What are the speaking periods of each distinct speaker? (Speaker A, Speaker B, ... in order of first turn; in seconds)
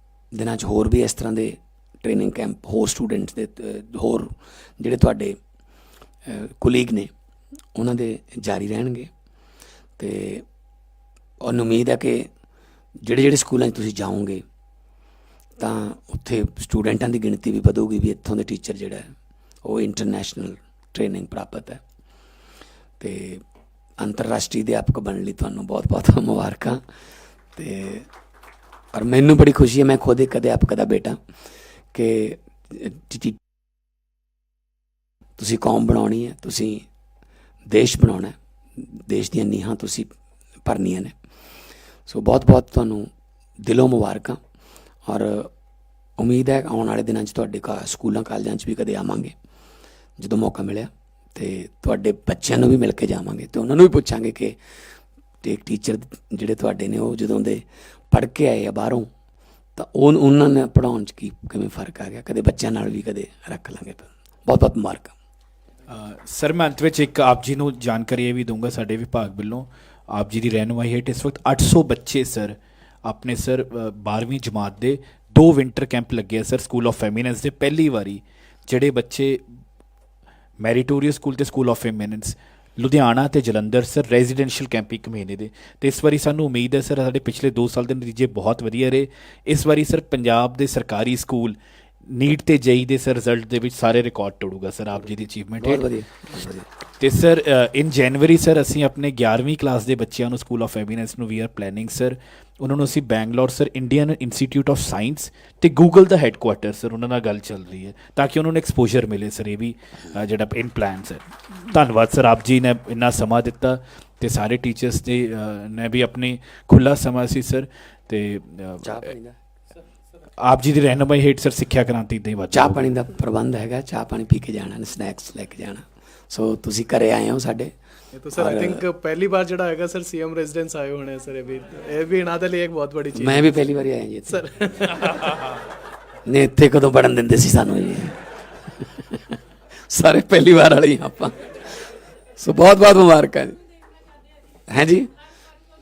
Speaker A: 0.3-5.4, 6.2-7.1, 7.7-9.1, 10.0-10.4, 11.4-12.3, 13.0-14.4, 15.6-19.1, 19.6-21.8, 23.0-23.4, 24.0-26.8, 27.6-28.1, 28.9-31.2, 31.9-33.4, 35.4-36.9, 37.7-40.1, 40.6-41.1, 42.1-43.1, 43.6-44.4, 45.0-45.5, 46.2-49.3, 50.2-54.5, 55.4-59.1, 59.8-65.1, 95.6-96.7, 118.8-119.4, 122.5-127.7, 128.3-128.8, 133.1-134.5, 136.2-138.2, 138.8-139.4, 139.9-141.5, 142.4-143.6, 144.7-145.1
Speaker B: 65.9-79.4, 80.6-95.8, 97.0-119.1, 120.4-122.8
Speaker C: 128.2-133.6, 134.3-135.4